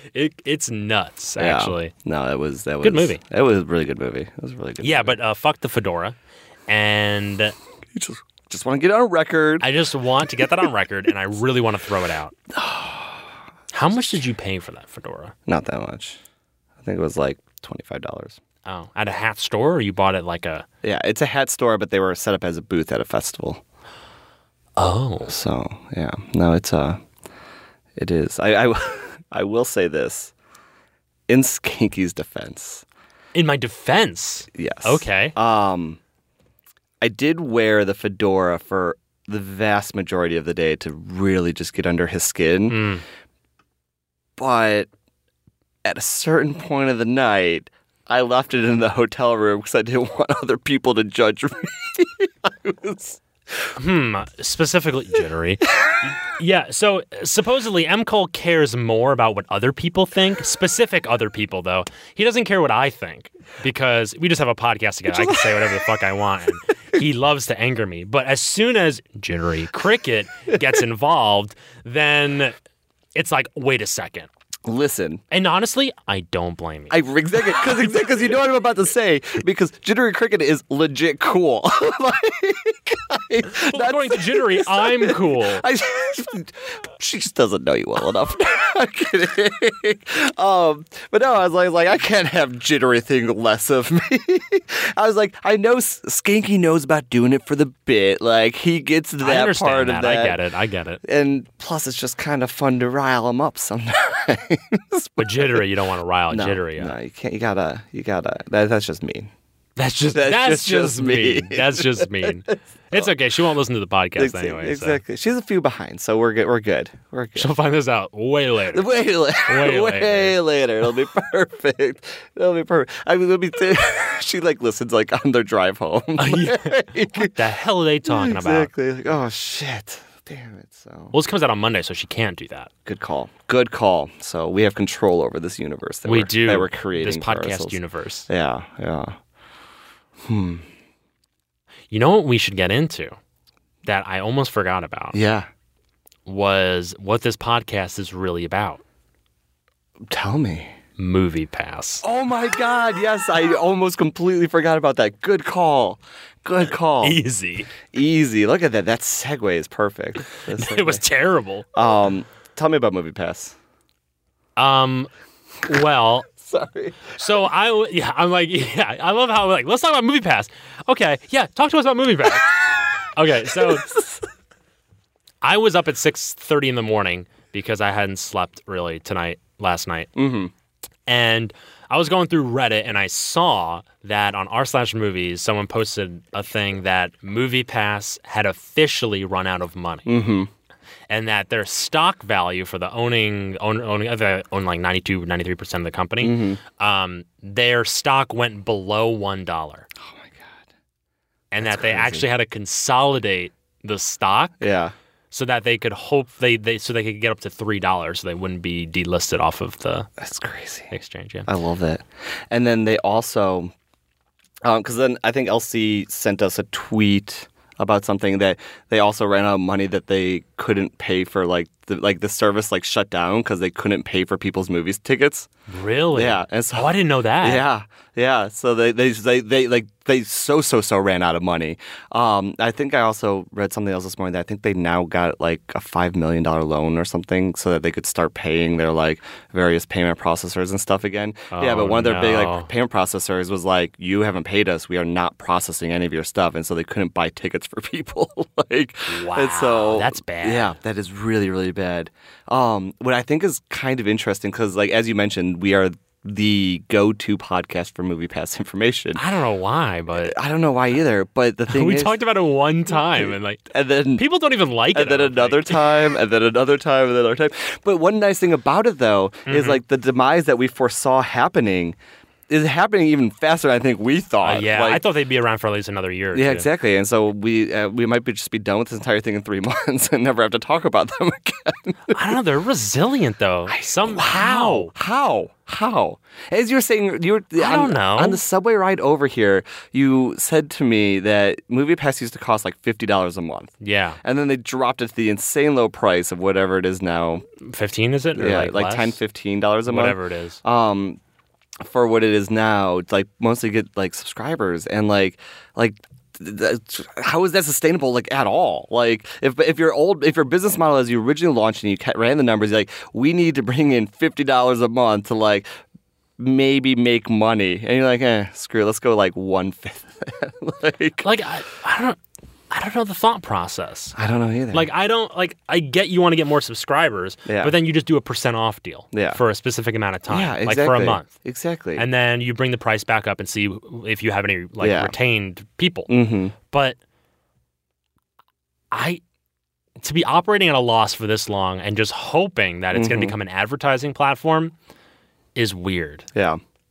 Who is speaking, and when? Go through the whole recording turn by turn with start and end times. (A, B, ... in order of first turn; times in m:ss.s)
0:00.1-0:01.9 A
0:01.4-0:05.2 B
0:02.8-0:03.2 A
0:04.8-0:06.2 A
0:06.7-0:07.6 A
0:07.9-0:09.7 B
0:09.6-0:12.4 A
0:12.5-0:13.3 B
0:13.7-0:15.4 A
0:15.5-0:16.2 B
0:16.8-0:18.4 B
0:18.7-0:20.7 A
0:20.8-0:23.6 B
0:24.8-0:25.4 A
0:25.3-0:27.0 B
0:28.0-0:30.3 B
0:31.3-0:32.8 B
0:33.3-0:35.4 A
0:34.6-0:36.0 B
0:37.0-0:42.8 B
0:42.7-0:43.0 A
0:44.4-0:44.9 B
0:45.8-0:53.7 B
0:53.8-1:12.6 A
1:05.1-1:05.8 B
1:13.2-1:14.3 A
1:14.7-1:15.2 B
1:15.3-1:17.0 A
1:16.9-1:40.4 B
1:23.5-1:25.6 A
1:39.2-1:41.0 A
1:41.0-1:45.6 B
1:45.2-1:47.0 A
1:46.3-1:49.3 B
1:49.8-1:55.0 A
1:50.1-1:53.1 B
1:54.2-1:57.5 B
1:57.4-2:00.4 A
1:58.7-2:07.4 B
2:06.2-2:08.7 A
2:08.1-2:11.2 B
2:11.1-2:12.7 A
2:12.9-2:19.2 B
2:16.0-2:18.3 A
2:20.2-2:20.7 B
2:21.9-2:23.2 A
2:23.8-2:25.2 A
2:25.1-2:25.5 B
2:26.3-2:28.8 A
2:30.1-2:30.8 B
2:31.0-2:32.0 A
2:32.0-2:37.2 B
2:37.0-2:37.7 A
2:37.9-2:41.0 B
2:40.4-2:41.7 A
2:41.7-2:43.6 B
2:44.6-2:45.1 A
2:45.6-2:46.3 A
2:46.4-2:47.2 B
2:47.1-2:53.9 A
2:53.5-2:54.2 B
2:55.4-3:00.1 A
3:00.2-3:00.5 B
3:01.1-3:10.1 A
3:10.1-3:10.5 B
3:11.1-3:19.9 A
3:16.2-3:16.6 B
3:20.0-3:20.6 B
3:21.5-3:24.6 A
3:21.6-3:22.3 B
3:24.6-3:24.9 B
3:25.3-3:30.1 A
3:30.2-3:30.9 B
3:30.9-3:31.5 A
3:31.5-3:33.7 B
3:34.6-3:45.5 B
3:45.7-3:47.6 A
3:46.2-4:19.2 B
4:01.5-4:02.7 A
4:09.1-4:10.8 A
4:19.2-4:20.4 A
4:20.2-4:22.2 B
4:21.7-4:23.6 A
4:22.9-4:24.2 B
4:24.2-4:26.0 A
4:24.9-4:32.0 B
4:29.5-4:29.8 A
4:32.5-4:35.0 B
4:34.4-4:36.7 A
4:36.3-4:42.2 B
4:42.1-4:44.9 A
4:43.7-4:57.4 B
4:47.6-4:48.4 A
4:53.8-4:54.2 A
4:57.6-4:59.2 A
4:58.4-5:01.2 B
4:59.9-5:00.6 A
5:01.8-5:15.7 B
5:16.4-5:21.3 B
5:21.2-5:22.2 A
5:22.7-5:24.2 A
5:24.2-5:24.9 B
5:24.7-5:31.3 A
5:27.5-5:27.8 B
5:29.1-5:29.4 B
5:30.3-5:32.1 B
5:32.0-5:36.1 A
5:34.8-5:35.1 B
5:36.1-5:36.5 B
5:36.7-5:37.0 A
5:38.9-5:39.2 A
5:40.0-5:44.8 A
5:42.9-5:43.4 B
5:45.6-5:46.3 A
5:46.3-5:46.6 B